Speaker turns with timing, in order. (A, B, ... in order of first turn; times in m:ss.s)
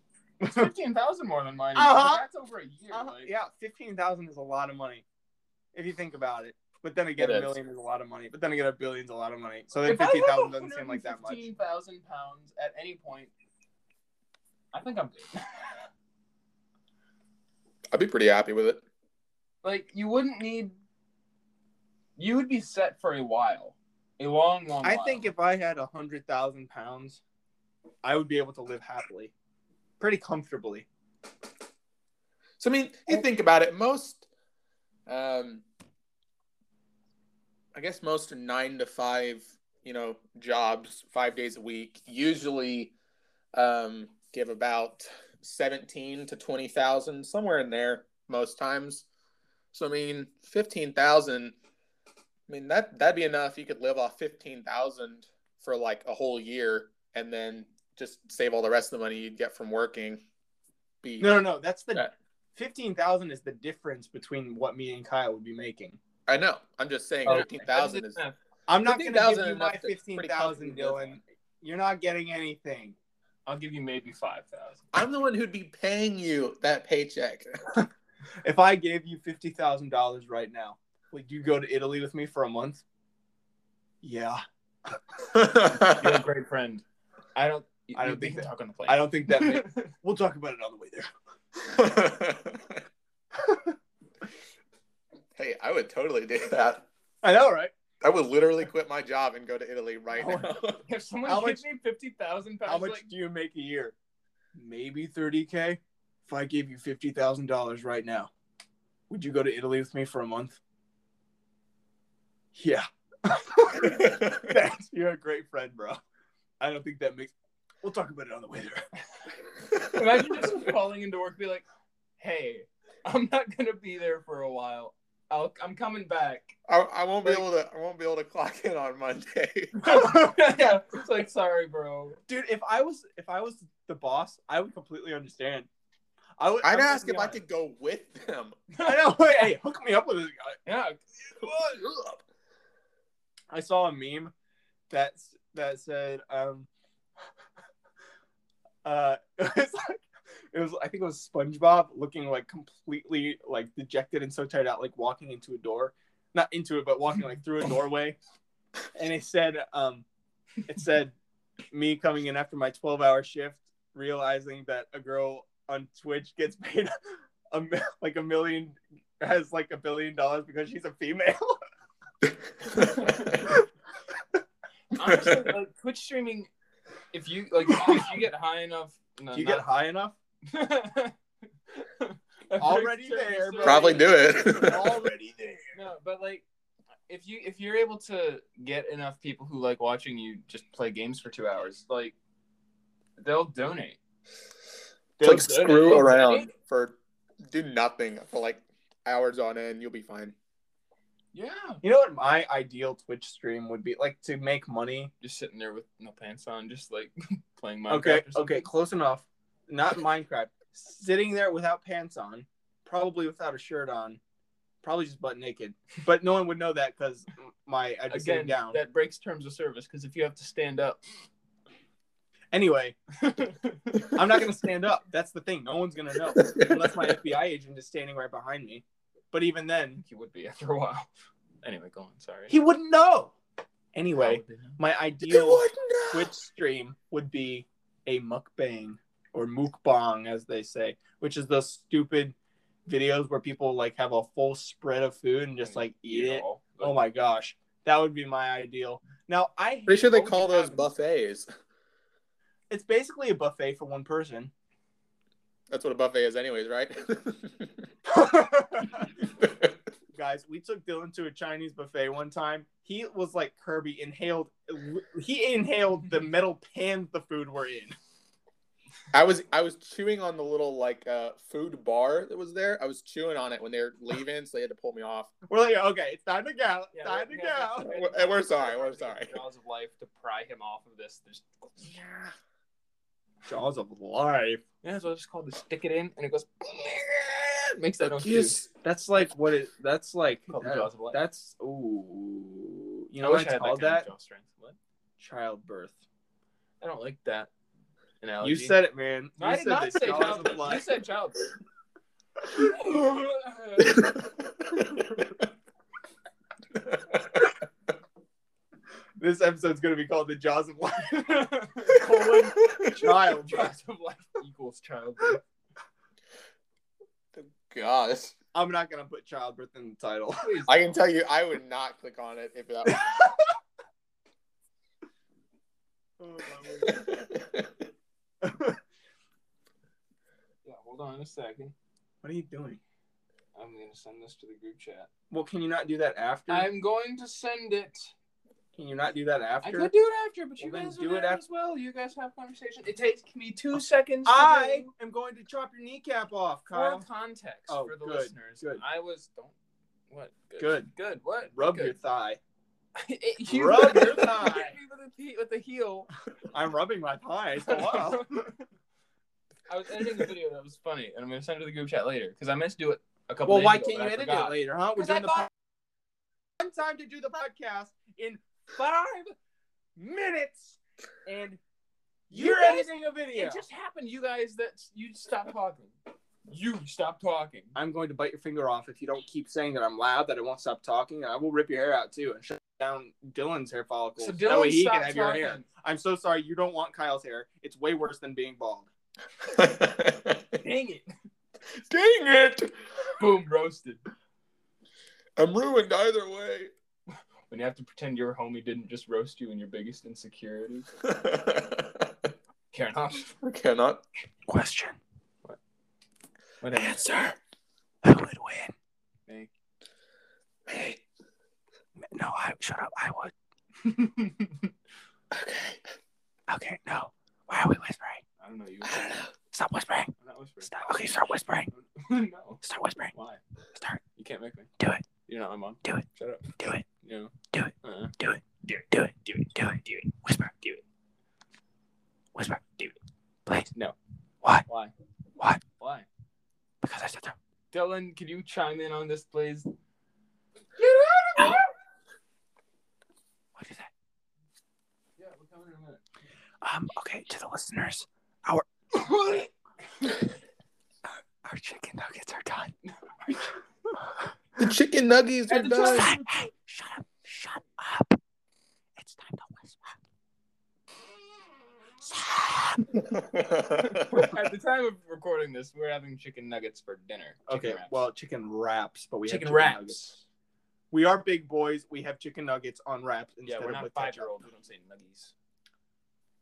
0:00.4-0:00.7 A
0:00.4-0:03.3 B
0:01.8-0:02.3 A
0:02.9-0:05.0 A
0:05.7-0:11.5 A
0:07.2-0:07.6 C
0:09.8-0:13.3 B
0:14.7-0:15.8 B
0:17.9-0:18.8 C
0:19.6-0:20.8 B
0:22.2-0:25.2 B
0:24.8-0:27.2 A
0:28.0-0:29.3 A
0:30.0-0:30.9 A
0:32.6-0:34.3 C
0:35.1-0:35.6 C
0:37.7-0:42.9 C
0:43.5-0:49.1 C
0:49.7-0:51.6 C
0:52.5-1:00.2 C
1:01.0-1:01.4 C
1:01.2-1:06.0 A
1:06.3-1:08.2 C
1:07.3-1:08.4 B
1:08.7-1:13.0 A
1:08.8-1:11.2 C
1:13.5-1:14.9 B
1:14.9-1:17.6 C
1:18.4-1:22.8 A
1:24.0-1:24.4 A
1:25.3-1:26.2 C
1:25.8-1:26.8 B
1:27.4-1:29.9 B
1:28.0-1:31.1 A
1:31.7-1:32.8 C
1:35.4-1:36.9 C
1:37.2-1:37.7 A
1:38.0-1:40.8 C
1:40.2-1:40.5 A
1:40.9-1:43.1 B
1:41.2-1:41.6 A
1:42.7-1:44.0 A
1:44.6-1:48.3 A
1:49.1-1:50.6 A
1:52.6-1:56.0 A
1:53.8-1:54.5 C
1:56.6-1:58.8 A
1:59.8-2:01.6 B
2:02.2-2:06.6 B
2:06.7-2:09.9 C
2:09.8-2:12.2 B
2:09.8-2:10.3 A
2:12.3-2:15.7 A
2:16.4-2:17.4 A
2:16.6-2:18.6 C
2:18.8-2:19.4 B
2:18.8-2:20.6 A
2:20.7-2:22.2 B
2:23.5-2:24.3 A
2:24.9-2:26.7 A
2:28.8-2:38.2 A
2:38.9-2:40.0 A
2:40.7-2:41.2 A
2:41.7-2:46.9 A
2:47.5-2:51.6 A
2:52.2-2:53.4 C
2:55.0-2:56.5 B
2:55.0-2:55.5 C
2:57.1-2:59.7 B
2:59.3-3:00.2 A
3:00.5-3:01.2 B
3:01.7-3:04.1 B
3:02.6-3:05.7 A
3:03.6-3:05.1 C
3:05.7-3:06.4 B
3:07.1-3:12.2 B
3:13.2-3:14.0 B
3:15.2-3:16.3 A
3:15.2-3:16.5 B
3:15.2-3:17.0 C
3:17.5-3:20.4 C
3:21.3-3:21.8 B
3:21.8-3:25.1 A
3:25.2-3:28.7 B
3:27.9-3:34.2 A
3:34.8-3:38.8 A
3:38.1-3:41.0 B
3:42.5-3:43.0 A
3:43.2-3:44.2 B
3:44.1-3:50.0 A
3:46.4-3:46.8 C
3:50.0-3:51.1 B
3:51.6-3:52.5 B
3:52.5-3:53.3 A
3:53.9-4:02.4 A
3:54.2-3:54.8 B
3:55.2-3:56.3 C
4:02.9-4:10.9 A
4:05.6-4:07.0 B
4:09.9-4:11.5 C
4:12.7-4:14.5 A
4:15.7-4:17.9 C
4:18.1-4:19.1 A
4:19.2-4:19.8 C
4:20.1-4:28.0 A
4:29.1-4:35.3 C
4:35.5-4:37.9 A
4:36.9-4:42.0 B
4:37.9-4:39.4 C
4:43.5-4:44.6 A
4:44.8-4:48.6 B
4:48.0-4:54.1 A
4:50.5-4:51.2 B
4:53.2-4:54.8 B
4:55.2-4:56.0 A
4:56.8-4:57.5 B
4:58.2-4:58.8 B
4:58.4-5:00.9 A
4:59.4-5:01.5 B
5:02.6-5:04.1 B
5:03.8-5:05.3 C
5:06.7-5:07.5 C
5:09.2-5:13.8 A
5:11.1-5:12.0 B
5:13.0-5:15.4 B
5:17.4-5:18.4 C
5:18.5-5:20.6 A
5:20.4-5:21.0 B
5:20.7-5:23.1 C
5:22.9-5:23.3 A
5:26.2-5:27.1 A
5:26.8-5:27.8 C
5:28.4-5:28.8 A
5:30.6-5:31.7 B
5:32.2-5:32.8 A
5:33.6-5:35.1 B
5:35.3-5:36.7 A
5:36.5-5:38.1 B
5:38.8-5:39.9 A
5:39.6-5:44.9 B
5:40.6-5:41.4 A
5:44.3-5:47.1 A
5:46.7-5:49.5 B
5:47.7-5:48.8 A
5:50.1-5:52.0 B
5:50.6-5:50.9 A
5:51.5-5:52.4 A
5:53.0-5:56.1 B
5:53.5-5:54.8 A
5:56.5-5:58.4 A
5:57.7-5:58.6 B
5:59.7-6:05.5 B
6:03.5-6:05.5 A
6:06.6-6:09.4 A
6:10.0-6:11.6 A
6:12.3-6:13.6 A
6:12.3-6:15.9 B
6:16.5-6:17.8 B
6:17.8-6:28.9 A
6:24.2-6:25.6 B
6:29.4-6:30.6 C
6:30.6-6:31.1 B
6:31.8-6:32.7 C
6:33.2-6:34.0 B
6:35.4-6:36.7 C
6:37.5-6:40.9 B
6:41.0-6:42.3 C
6:42.7-6:43.3 B
6:43.4-6:44.0 C
6:44.5-6:45.0 A
6:46.6-6:47.4 B
6:48.0-6:48.7 A
6:50.7-6:51.0 C
6:52.1-6:53.3 A
6:53.8-6:54.7 B
6:55.3-6:55.8 C
6:56.5-6:58.2 A
6:58.4-6:59.2 B
6:59.0-7:00.1 A
7:00.2-7:01.1 B
7:00.6-7:01.7 A
7:01.7-7:03.4 B
7:02.6-7:03.1 A
7:03.8-7:04.0 A
7:04.2-7:04.7 B
7:04.8-7:05.0 A
7:05.3-7:07.3 B
7:06.6-7:06.9 A
7:07.5-7:10.8 A
7:07.8-7:08.1 B
7:12.4-7:13.0 A
7:14.6-7:14.9 B
7:15.8-7:16.1 B
7:16.8-7:17.4 A
7:17.7-7:19.7 B
7:20.8-7:21.7 B
7:23.6-7:23.9 A
7:25.2-7:26.0 B
7:26.6-7:28.7 A
7:28.9-7:30.2 B
7:31.4-7:32.7 A
7:32.8-7:33.9 B
7:34.6-7:36.2 C
7:35.5-7:36.5 B
7:35.8-7:38.2 A
7:39.0-7:40.0 A
7:42.1-7:42.9 A
7:42.9-7:44.3 C
7:43.8-7:48.0 B
7:47.5-7:50.2 A
7:49.3-7:50.2 B
7:50.9-7:54.4 A
7:53.5-7:55.3 B